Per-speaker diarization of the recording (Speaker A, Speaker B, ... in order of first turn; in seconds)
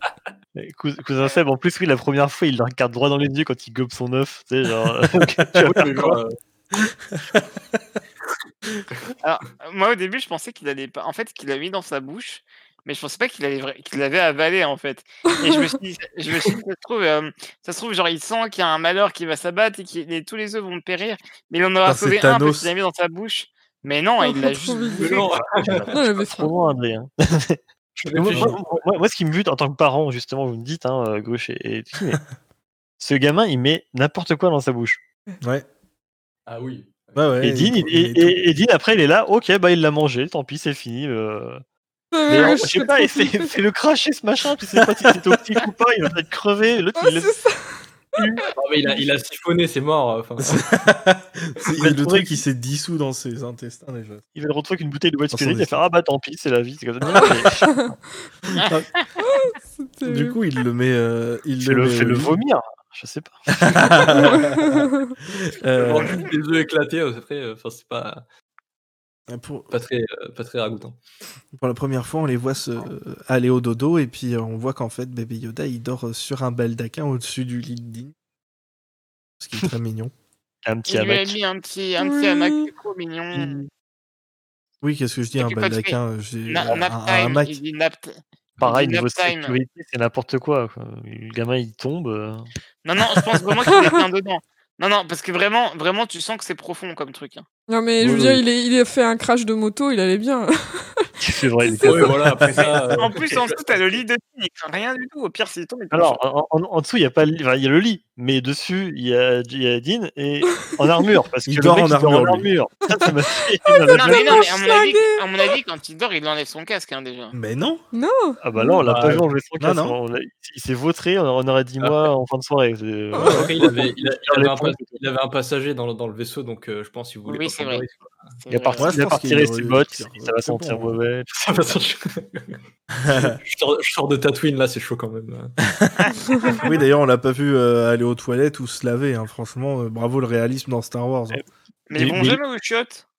Speaker A: 0.5-6.2, 25.4-32.2, 33.0-35.0, 37.4-41.6, 42.2-47.4, 48.2-48.4, 51.8-52.4, 54.3-57.7, 61.6-64.1, 80.7-81.4, 86.5-86.8, 88.6-92.5, 93.0-93.7, 98.0-98.4, 101.2-102.3, 105.9-114.4, 118.4-125.0, 128.5-131.3, 141.9-142.4
Speaker B: 5.6-6.3, 25.0-25.9, 28.1-28.8, 36.5-37.3, 48.4-50.7, 65.8-68.2, 69.7-71.0, 101.8-104.0, 118.8-119.3, 121.8-122.1, 123.2-128.3, 131.3-135.6, 142.0-142.4
Speaker C: 6.8-7.8, 21.9-22.7, 37.1-38.4, 45.0-45.4, 50.4-54.2, 55.3-55.7, 58.5-58.9, 60.0-62.3, 63.6-66.2, 69.3-69.7, 71.5-78.1, 79.4-80.1, 84.8-87.6, 111.5-112.5, 117.3-117.8, 119.6-119.9, 128.8-130.9, 133.0-133.4, 136.6-141.4
Speaker D: 9.2-25.3, 58.5-59.0, 80.9-83.6, 85.3-86.0, 86.5-89.5, 92.8-97.5, 103.0-106.2, 113.9-117.3, 127.2-127.8, 128.4-128.9, 136.0-136.6, 141.9-143.0
Speaker E: 15.3-15.7, 24.2-25.3, 25.9-26.6, 42.1-43.5, 47.0-48.5, 57.4-57.9, 59.2-60.4, 63.9-65.1, 82.0-82.7, 93.7-94.0, 97.7-101.1, 101.7-101.9, 112.9-115.5, 117.9-118.8, 123.1-123.5, 136.3-136.6